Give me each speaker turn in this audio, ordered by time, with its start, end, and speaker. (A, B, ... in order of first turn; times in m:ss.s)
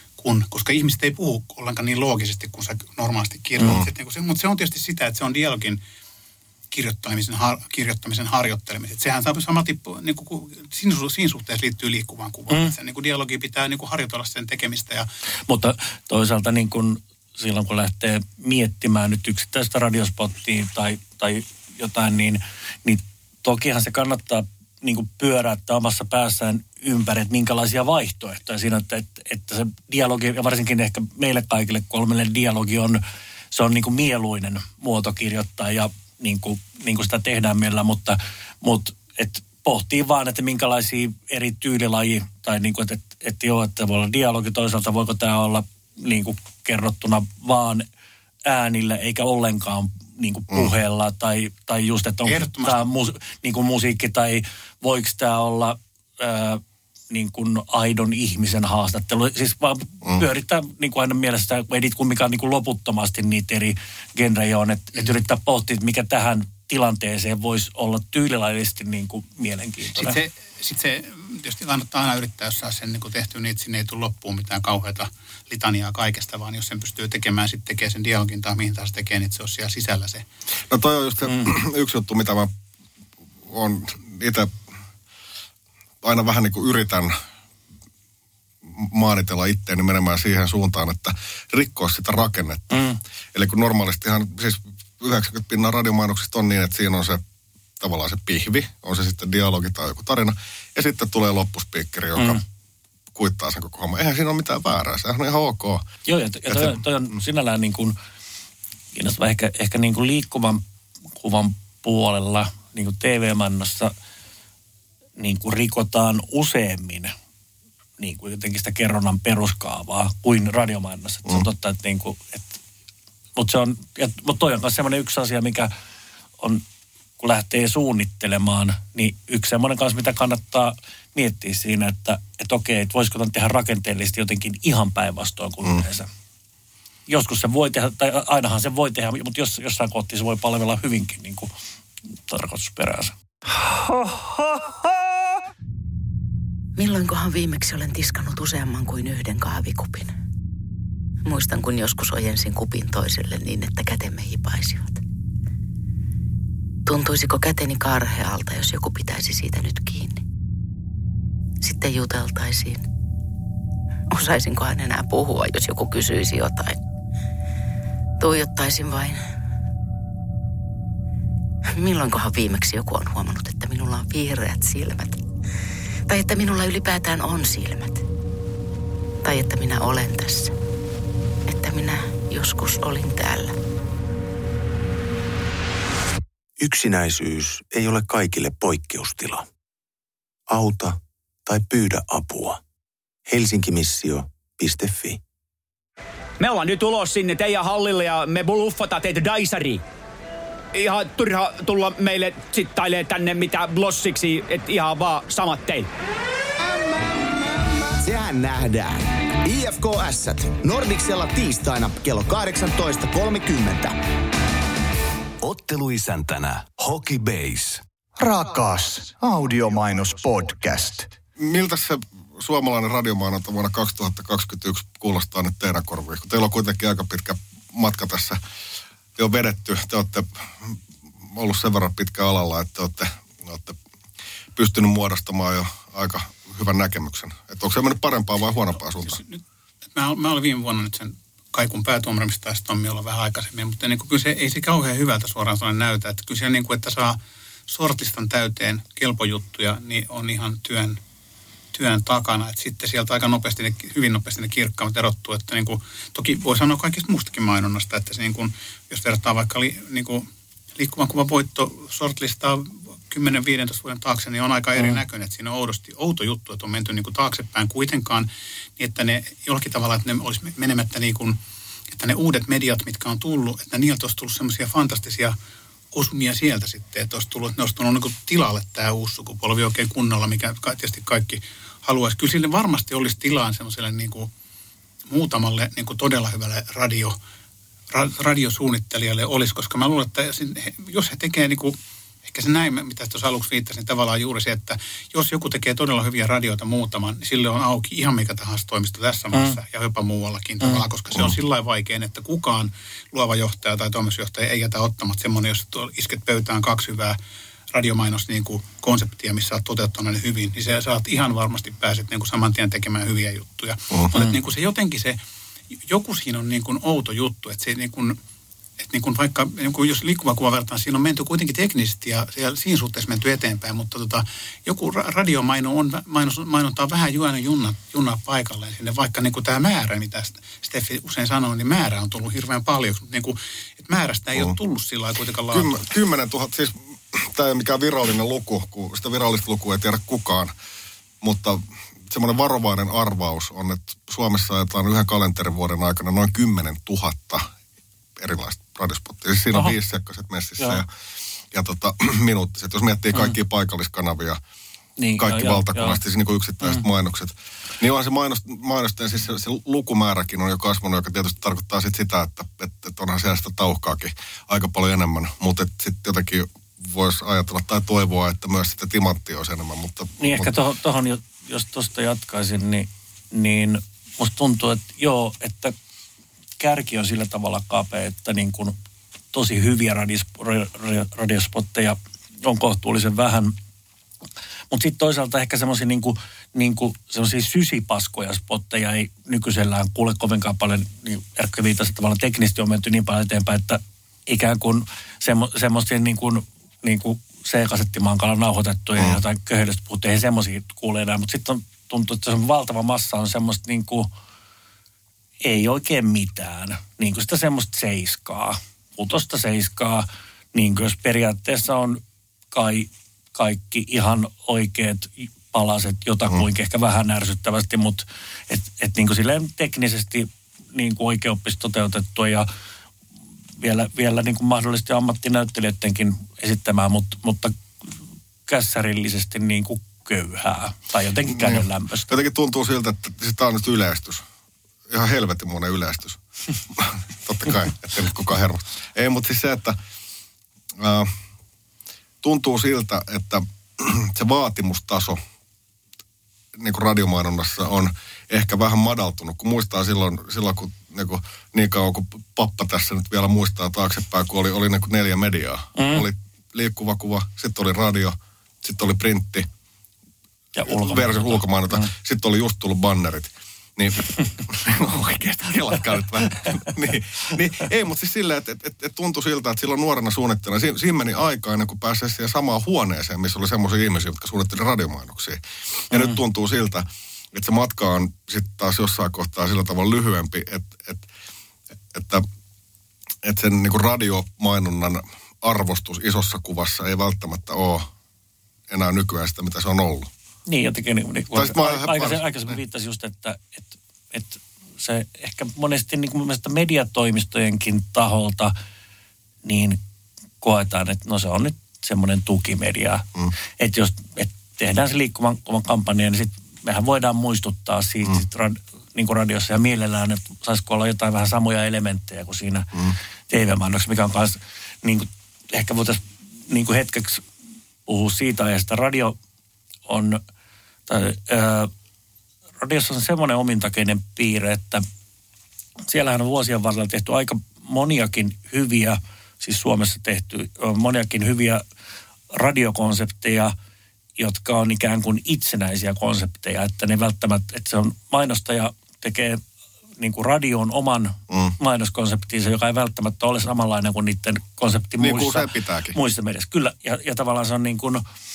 0:00.2-0:05.8 A
0:06.7-0:15.1 A
0:15.5-0:33.0 B
0:33.5-0:47.8 B
0:48.4-1:10.2 B
0:52.2-0:52.8 A
1:10.0-1:20.2 A
1:20.7-1:22.5 C
1:21.2-1:21.5 B
1:23.5-1:24.5 C
1:26.0-1:27.1 C
1:28.6-1:37.2 C
1:32.7-1:33.0 B
1:37.8-1:42.4 C
1:42.2-1:42.4 B
1:43.1-1:45.8 C
1:46.1-1:47.9 B
1:46.5-1:46.8 C
1:48.9-1:50.6 B
1:51.2-1:53.9 B
1:55.2-1:57.1 B
1:58.0-2:02.6 B
2:03.4-2:05.7 B
2:07.2-2:16.1 B
2:17.1-2:21.5 B
2:22.3-2:23.2 B
2:26.8-2:28.4 D
2:37.6-2:38.1 D
2:52.9-2:53.7 D
3:06.6-3:09.5 E
3:10.5-3:12.6 E
3:13.2-3:15.2 E
3:16.4-3:19.8 F
3:20.7-3:25.9 F
3:28.0-3:34.0 G
3:35.4-3:37.8 H
3:38.2-3:41.1 I
3:41.4-3:48.4 C
3:49.2-3:53.8 C
3:54.5-3:59.2 C
3:58.8-3:59.4 A
3:59.9-4:11.0 A
4:11.7-4:31.4 A
4:24.8-4:25.0 B
4:31.9-4:35.4 A
4:35.9-4:44.3 A
4:45.1-4:47.2 A
4:47.9-5:07.2 A
5:07.7-5:15.2 A
5:13.9-5:14.3 C
5:15.8-5:18.2 A
5:18.8-5:35.9 A
5:35.5-5:40.5 C
5:41.2-5:47.5 C
5:48.2-5:50.9 C
5:51.5-5:54.4 C
5:55.0-5:56.0 B
5:55.2-6:10.5 C
6:10.2-6:15.7 B
6:16.6-6:18.8 B
6:19.3-6:23.5 B
6:24.7-6:44.1 B
6:45.4-6:52.0 B
6:52.5-7:02.5 B
7:03.6-7:07.6 B
7:08.5-7:12.1 B
7:11.3-7:14.2 C
7:14.9-7:16.2 C
7:16.7-7:19.8 C
7:20.8-7:21.1 C
7:22.2-7:25.2 C
7:26.6-7:39.5 C
7:35.8-7:36.1 B
7:40.5-7:41.9 B
7:40.7-8:01.0 C
7:55.9-7:56.2 B
8:01.9-8:02.2 C
8:03.2-8:07.9 C
8:08.7-8:10.1 C
8:10.5-8:18.5 B
8:11.3-8:12.6 C
8:19.4-8:19.8 B
8:20.4-8:23.0 B
8:23.6-8:32.7 B
8:33.3-8:37.2 B
8:37.8-8:39.1 B
8:39.9-8:40.2 B
8:40.9-8:41.7 B
8:42.6-8:44.8 B
8:45.9-8:51.6 B
8:52.3-8:53.5 B
8:54.2-8:59.4 B
9:00.0-9:08.0 B
9:01.3-9:01.5 C
9:05.0-9:06.0 C